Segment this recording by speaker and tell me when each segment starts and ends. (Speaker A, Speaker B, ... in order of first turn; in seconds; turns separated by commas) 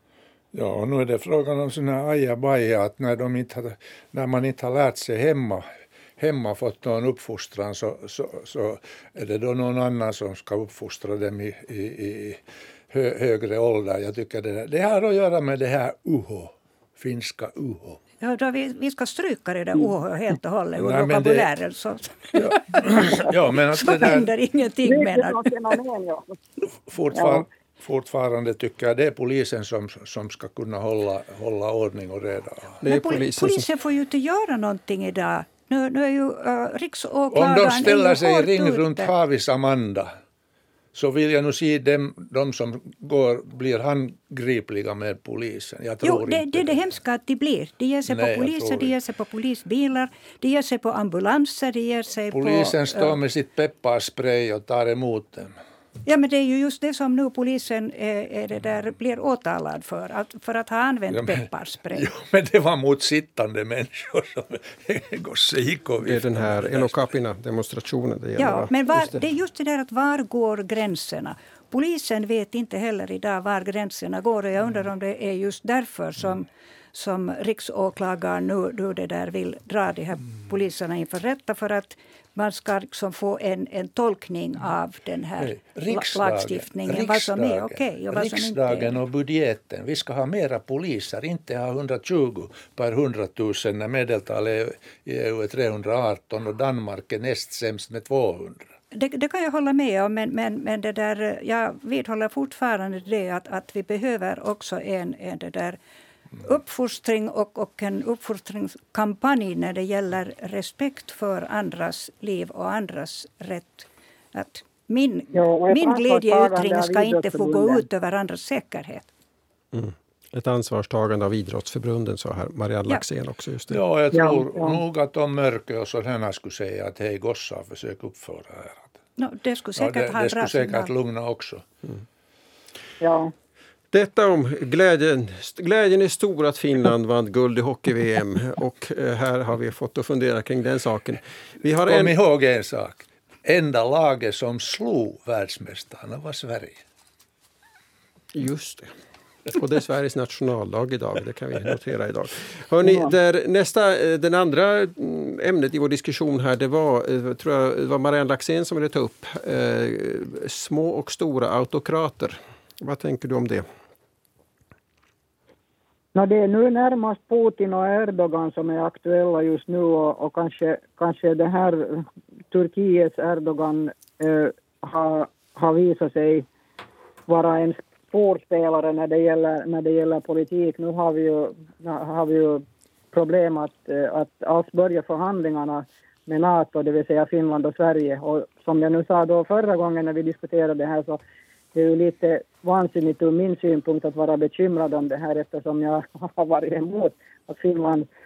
Speaker A: 0.5-5.6, Speaker A: 6.2-18.0, Speaker B: 18.2-25.5, Speaker A: 20.8-21.5, Speaker A: 22.4-24.3, Speaker C: 24.8-26.4, Speaker A: 26.9-32.8, Speaker C: 27.1-27.4, Speaker D: 32.8-33.7, Speaker B: 32.8-39.1, Speaker A: 37.3-40.1, Speaker A: 40.9-46.8, Speaker B: 46.0-53.2, Speaker A: 48.1-48.9, Speaker A: 52.3-55.5, Speaker B: 56.0-62.1, Speaker A: 61.9-66.9, Speaker D: 66.0-69.2, Speaker B: 68.4-89.0, Speaker A: 85.4-98.7, Speaker B: 98.9-105.8, Speaker B: 106.4-119.1, Speaker C: 115.3-117.8, Speaker D: 119.7-123.8, Speaker A: 123.7-128.9, Speaker C: 124.1-124.8, Speaker B: 129.2-130.9, Speaker A: 129.8-131.6, Speaker C: 133.0-133.3, Speaker D: 133.9-142.1, Speaker A: 141.8-146.8, Speaker D: 148.3-148.9, Speaker D: 149.5-163.7, Speaker C: 166.1-176.4, Speaker C: 177.3-191.2, Speaker C: 191.7-198.1